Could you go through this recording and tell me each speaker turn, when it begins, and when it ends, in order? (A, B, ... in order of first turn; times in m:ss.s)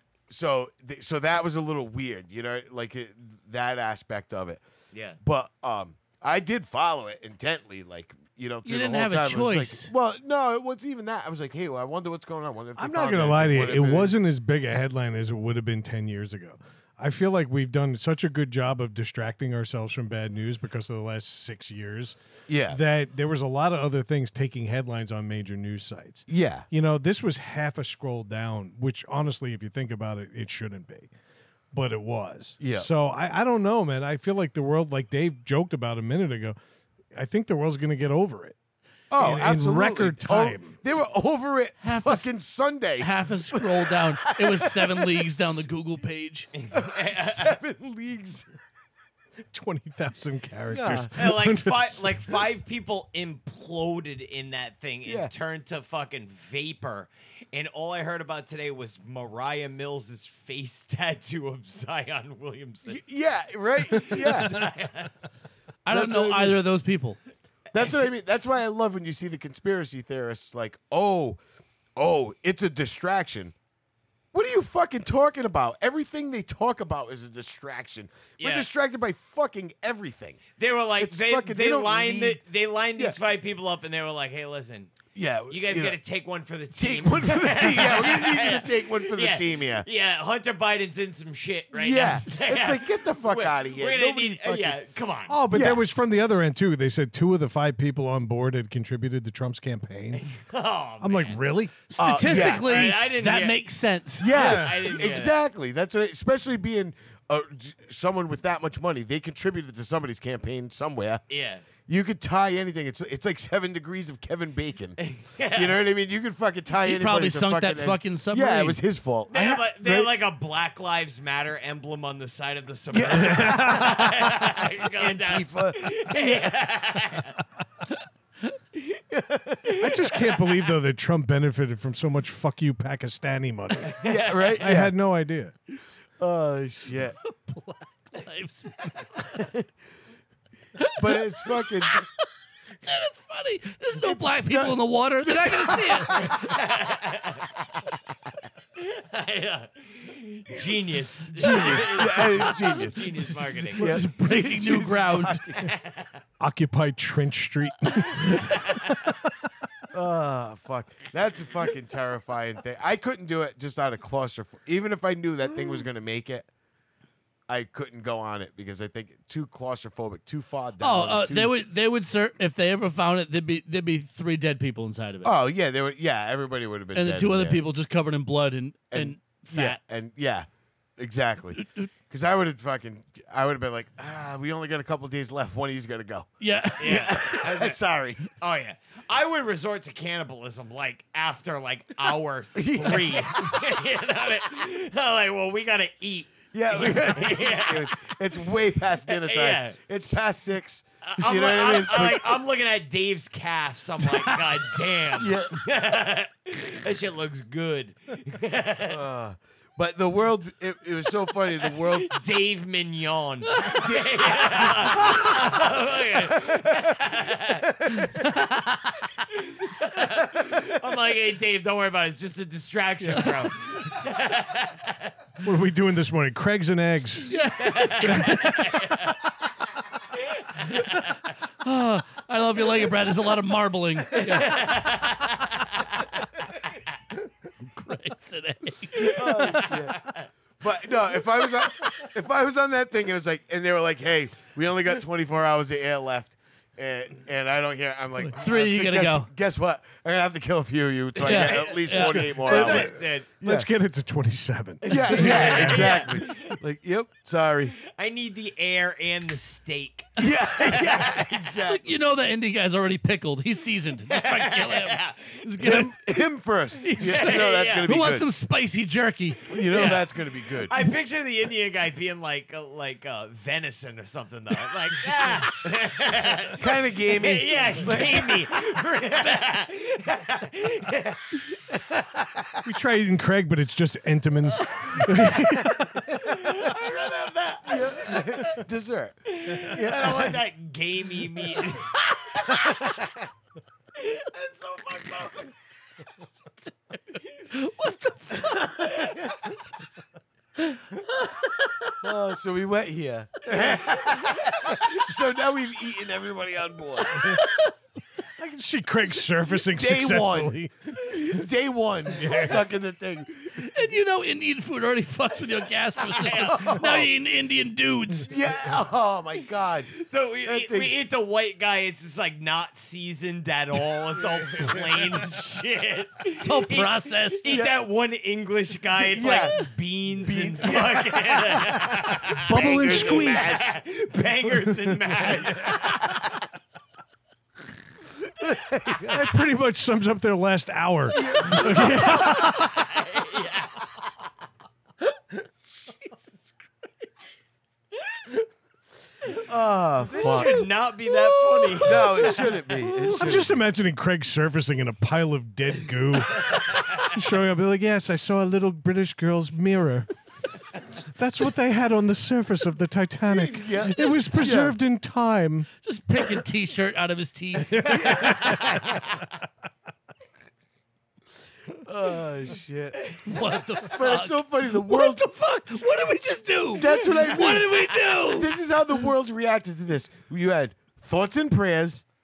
0:00.3-0:04.6 A
0:04.9-0:05.2 B
0:05.2-0:14.2 A
0:08.6-0:09.9 C
0:12.8-0:31.1 D
0:22.5-0:22.8 A
0:26.3-0:26.7 A
0:31.7-0:36.6 D
0:32.6-0:32.9 A
0:37.1-0:38.6 D
0:39.1-0:45.2 A
0:39.2-0:40.8 D
0:41.8-0:42.3 C
0:43.0-0:46.5 C
0:46.6-0:47.5 B
0:46.7-0:48.5 A
0:49.5-0:52.4 D
0:50.7-0:51.1 A
0:51.1-1:03.0 B
0:55.1-0:55.3 A
1:02.9-1:04.7 A
1:03.8-1:05.1 B
1:05.9-1:07.2 C
1:05.9-1:06.6 A
1:07.7-1:11.4 A
1:12.0-1:13.5 A
1:14.3-1:20.4 A
1:18.4-1:18.7 B
1:20.6-1:24.9 B
1:21.0-1:22.4 A
1:25.2-1:26.0 A
1:25.5-1:35.4 B
1:26.8-1:29.9 A
1:31.7-1:34.8 A
1:35.3-1:40.2 D
1:35.5-1:35.8 A
1:40.2-1:41.4 B
1:41.0-1:41.9 D
1:41.9-1:44.5 C
1:42.0-1:42.8 A
1:42.3-1:43.6 B
1:44.2-1:51.2 A
1:44.3-1:45.4 B
1:44.3-1:44.8 D
1:51.3-1:51.6 B
1:51.8-1:55.0 A
1:55.0-1:55.8 B
1:55.5-2:00.1 A
1:56.8-1:58.8 C
1:59.3-2:07.4 B
2:02.9-2:06.7 A
2:03.4-2:04.1 D
2:09.1-2:10.1 A
2:09.8-2:14.0 D
2:14.0-2:14.7 B
2:14.0-2:14.9 A
2:14.6-2:15.5 D
2:16.2-2:17.2 A
2:17.2-2:19.4 C
2:20.8-2:22.1 C
2:21.0-2:22.0 A
2:22.8-2:26.4 C
2:24.0-2:26.6 A
2:26.2-2:27.5 B
2:28.8-2:34.0 B
2:31.4-2:35.7 A
2:31.4-2:35.4 C
2:35.6-2:36.2 B
2:36.4-2:39.5 D
2:39.9-2:46.5 A
2:47.5-2:51.5 A
2:50.8-2:55.4 C
2:55.2-2:57.6 A
2:57.0-2:59.8 C
2:58.9-3:08.3 A
3:01.6-3:01.9 C
3:06.4-3:07.2 C
3:06.8-3:07.8 B
3:08.3-3:18.2 B
3:12.6-3:13.6 A
3:16.5-3:22.4 A
3:19.0-3:19.8 B
3:21.0-3:29.0 B
3:25.1-3:25.6 A
3:28.9-3:32.2 A
3:31.6-3:37.7 B
3:33.5-3:33.9 C
3:33.7-3:35.5 A
3:37.9-3:39.0 C
3:39.4-3:45.1 B
3:43.2-3:43.5 C
3:45.4-3:47.4 D
3:47.3-3:49.0 C
3:47.6-3:49.2 B
3:48.0-3:49.0 D
3:50.4-3:51.2 B
3:50.7-3:51.0 C
3:51.6-3:54.9 C
3:54.1-3:56.8 B
3:57.6-3:59.9 C
3:59.0-4:13.7 A
3:59.3-4:00.3 B
4:08.2-4:09.3 C
4:11.2-4:13.3 B
4:11.2-4:12.4 C
4:12.2-4:16.1 D
4:14.8-4:16.6 B
4:14.9-4:17.8 A
4:17.8-4:21.4 B
4:20.2-4:21.9 A
4:21.6-4:26.2 C
4:24.1-4:25.4 B
4:25.6-4:28.3 A
4:26.8-4:29.5 C
4:27.0-4:27.9 B
4:29.5-4:30.7 A
4:29.6-4:41.6 B
4:36.6-4:38.6 A
4:42.6-4:46.2 D
4:45.4-4:45.8 A
4:46.2-4:48.6 B
4:47.7-4:50.4 A
4:49.3-4:53.0 B
4:52.6-4:53.1 A
4:54.0-4:55.5 B
4:56.6-4:59.2 C
5:02.0-5:07.4 A
5:07.2-5:07.7 C
5:08.4-5:11.5 D
5:09.7-5:13.7 A
5:12.1-5:12.6 D
5:13.6-5:18.4 C
5:16.0-5:16.8 B
5:16.3-5:17.1 A
5:18.3-5:19.9 A
5:19.9-5:36.0 B
5:20.4-5:20.9 A
5:24.2-5:25.0 A
5:26.4-5:27.5 C
5:27.5-5:27.8 A
5:28.9-5:29.7 A
5:30.2-5:33.8 A
5:32.4-5:33.6 D
5:34.5-5:35.4 D
5:38.4-5:39.4 A
5:39.0-5:43.0 D
5:41.2-5:42.3 A
5:41.7-5:44.0 B
5:45.8-5:46.2 C
5:49.3-5:50.7 A
5:50.0-5:52.5 B
5:50.2-5:53.2 C
5:51.8-5:53.6 A
5:53.1-6:00.1 D
6:01.0-6:05.7 D
6:03.4-6:04.8 A
6:05.8-6:08.5 C
6:07.8-6:08.6 D
6:07.8-6:09.2 A
6:11.7-6:13.2 A
6:13.2-6:18.5 C
6:13.8-6:15.3 A
6:16.8-6:22.0 A